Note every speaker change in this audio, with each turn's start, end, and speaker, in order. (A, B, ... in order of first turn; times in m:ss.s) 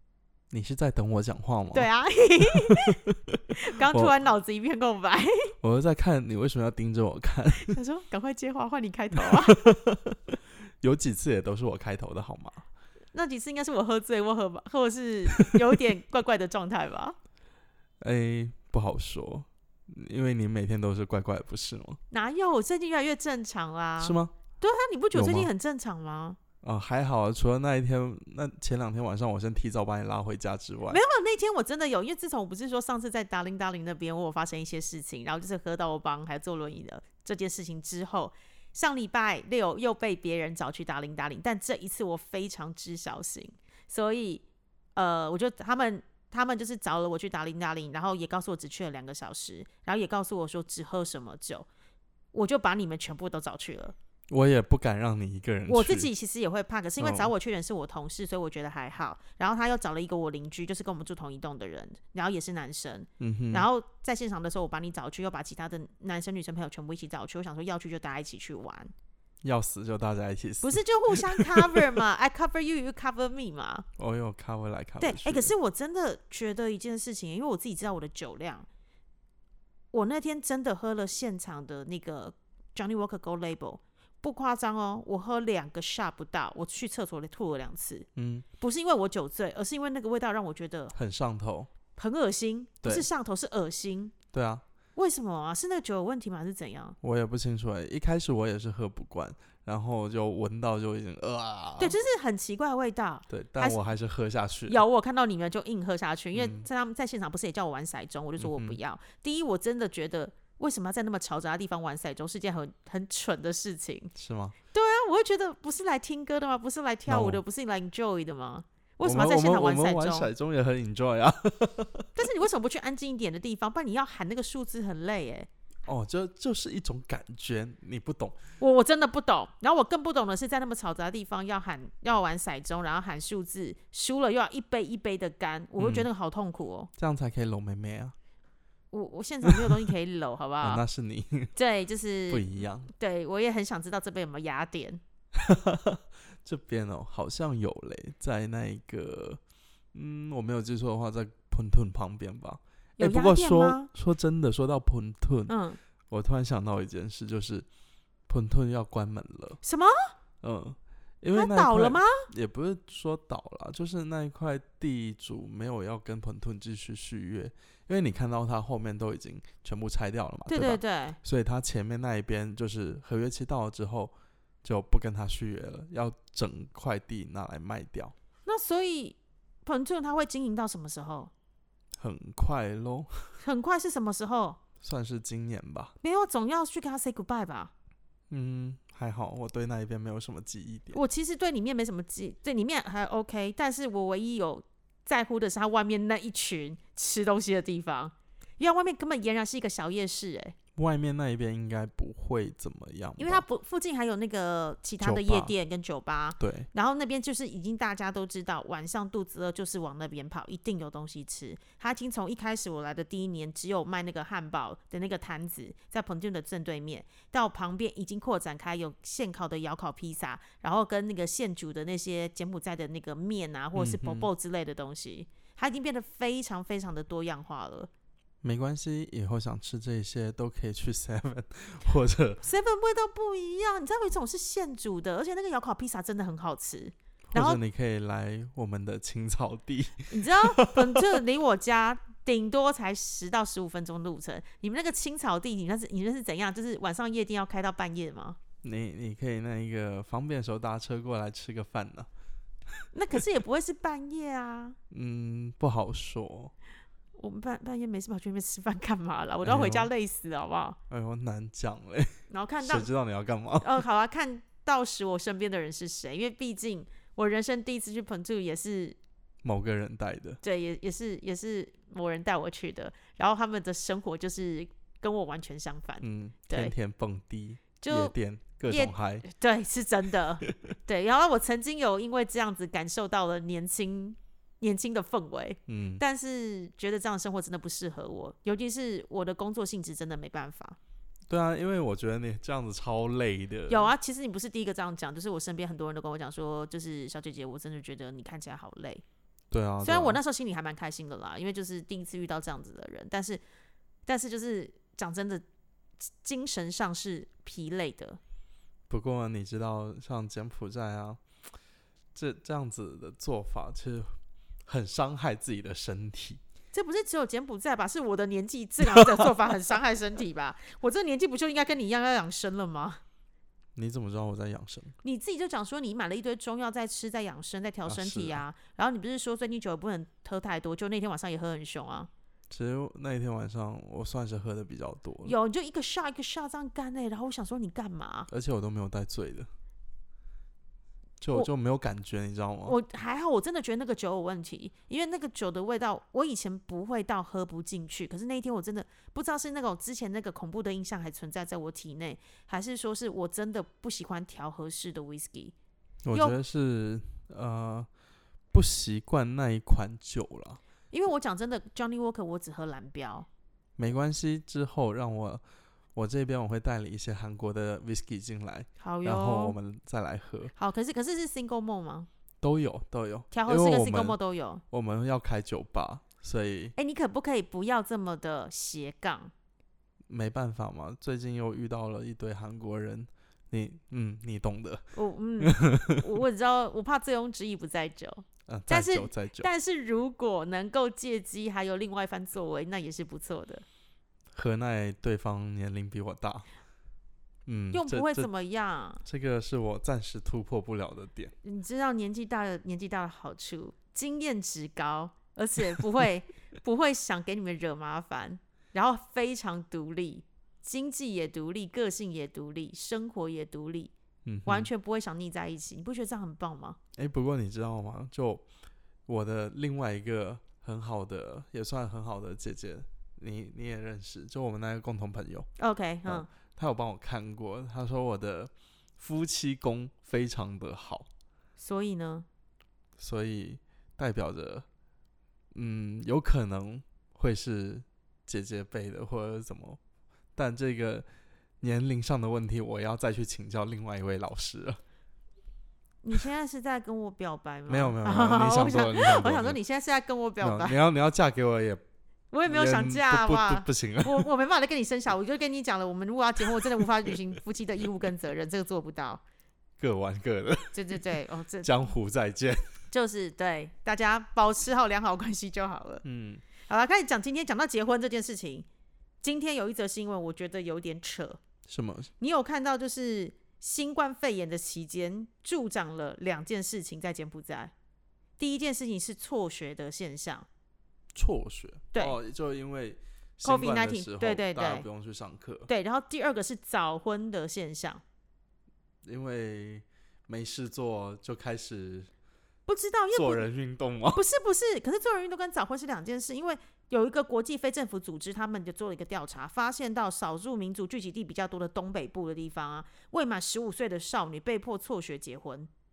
0:00.5-0:01.9 A
0:01.7-0:05.5 B
0:03.1-0:04.1 A
0:05.6-0:07.8 A
0:07.6-0:09.6 B
0:09.5-0:12.6 A
0:13.1-0:17.2 B
0:18.0-0:22.0 A
0:22.1-0:26.4 B
0:24.0-0:24.3 A
0:25.1-0:25.5 A
0:26.6-0:31.0 A
0:30.9-0:44.4 B
0:44.9-0:51.7 B
0:52.3-0:53.9 B
0:54.3-0:56.1 A
0:55.7-1:08.9 B
0:57.0-0:57.3 A
1:03.2-1:03.7 A
1:09.4-1:12.0 A
1:10.6-1:13.9 B
1:14.0-1:15.5 A
1:15.0-1:18.7 B
1:19.9-1:28.1 B
1:28.2-1:28.4 A
1:28.6-1:30.9 B
1:30.9-1:31.7 A
1:31.9-1:34.1 B
1:34.3-1:34.6 A
1:35.0-1:37.0 B
1:37.0-1:42.0 A
1:41.8-1:43.8 B
1:43.3-1:44.8 A
1:44.7-1:54.1 B
1:46.3-1:46.7 A
1:48.4-1:48.8 A
1:54.2-1:54.6 A
1:54.7-2:00.3 B
1:57.1-1:57.4 A
1:59.0-2:02.1 A
2:02.2-2:05.5 B
2:05.8-2:08.4 A
2:08.6-2:16.9 B
2:15.8-2:16.1 A
2:17.0-2:18.1 A
2:18.9-2:20.8 B
2:20.6-2:21.5 A
2:21.5-2:25.0 B
2:22.3-2:22.9 A
2:25.4-2:29.4 A
2:29.9-2:35.5 A
2:33.0-2:33.9 B
2:35.5-2:35.8 B
2:36.1-2:37.6 A
2:38.3-2:39.6 A
2:39.6-2:40.1 B
2:40.4-2:58.1 A
2:41.3-2:42.3 B
2:50.5-2:51.2 B
2:58.4-3:01.3 B
3:02.0-3:03.4 A
3:03.4-3:04.6 B
3:04.8-3:05.9 A
3:06.0-3:07.7 B
3:08.3-3:11.0 A
3:10.9-3:20.5 B
3:20.8-3:23.4 A
3:23.2-3:47.9 B
3:25.0-3:25.5 A
3:26.4-3:26.7 A
3:43.7-3:44.3 A
3:48.4-3:52.4 A
3:52.4-3:57.6 B
3:57.3-4:01.0 A
4:00.1-4:08.4 B
4:08.6-4:12.1 A
4:12.9-4:14.8 B
4:14.9-4:16.5 A
4:17.1-4:20.8 B
4:19.4-4:19.9 A
4:20.9-4:23.8 A
4:22.3-4:22.9 B
4:23.6-4:29.0 B
4:29.4-4:30.4 A
4:30.4-4:36.7 B
4:36.0-4:39.3 A
4:37.8-4:38.1 B
4:38.7-4:50.8 B
4:45.7-4:46.0 A
4:51.3-4:53.9 A
4:53.7-4:59.0 B
4:59.5-5:00.2 A
4:59.8-5:03.4 B
5:04.0-5:05.4 B
5:06.2-5:08.2 B
5:08.9-5:11.2 A
5:12.1-5:14.1 A
5:14.6-5:16.4 A
5:16.7-5:23.0 B
5:23.8-5:24.9 A
5:25.0-5:32.1 B
5:27.8-5:28.4 A
5:32.5-5:35.4 A
5:35.2-5:38.3 B
5:38.3-5:39.5 A
5:41.2-5:42.8 A
5:42.6-5:55.5 B
5:56.0-5:57.9 A
5:58.5-6:00.6 A
6:00.9-6:03.3 B
6:03.8-6:05.4 A
6:05.9-6:10.5 A
6:08.8-6:09.6 B
6:10.5-6:12.1 B
6:12.4-6:14.2 A
6:13.3-6:14.6 B
6:14.7-6:16.7 A
6:16.8-6:19.3 B
6:20.1-6:24.9 A
6:24.9-6:33.6 B
6:25.4-6:26.0 A
6:28.5-6:29.5 A
6:34.3-6:36.5 A
6:37.4-6:38.3 A
6:37.7-6:39.0 B
6:39.0-6:41.3 A
6:41.4-6:53.9 B
6:54.2-6:54.7 A
6:54.4-6:56.8 B
6:57.0-6:58.4 A
6:59.1-7:05.5 A
7:05.6-7:06.3 B
7:06.0-7:11.1 A
7:11.6-7:12.2 B
7:13.0-7:14.6 A
7:15.5-7:19.8 A
7:20.3-7:21.1 A
7:21.6-7:24.8 A
7:26.0-7:30.8 B
7:27.7-7:29.6 A
7:30.4-7:31.8 A
7:32.3-7:39.2 B
7:32.4-7:34.3 A
7:39.8-7:40.8 A
7:40.7-7:41.9 B
7:41.6-7:42.7 A
7:42.9-7:46.0 B
7:46.0-7:46.4 A
7:46.6-7:48.6 B
7:49.2-7:51.4 B
7:51.7-7:52.1 A
7:52.2-7:57.7 B
7:58.4-8:00.5 B
8:01.1-8:05.7 A
8:03.4-8:04.8 B
8:05.7-8:08.0 B
8:09.0-8:12.1 A
8:12.6-8:13.4 B
8:13.1-8:14.2 A
8:14.1-8:25.7 B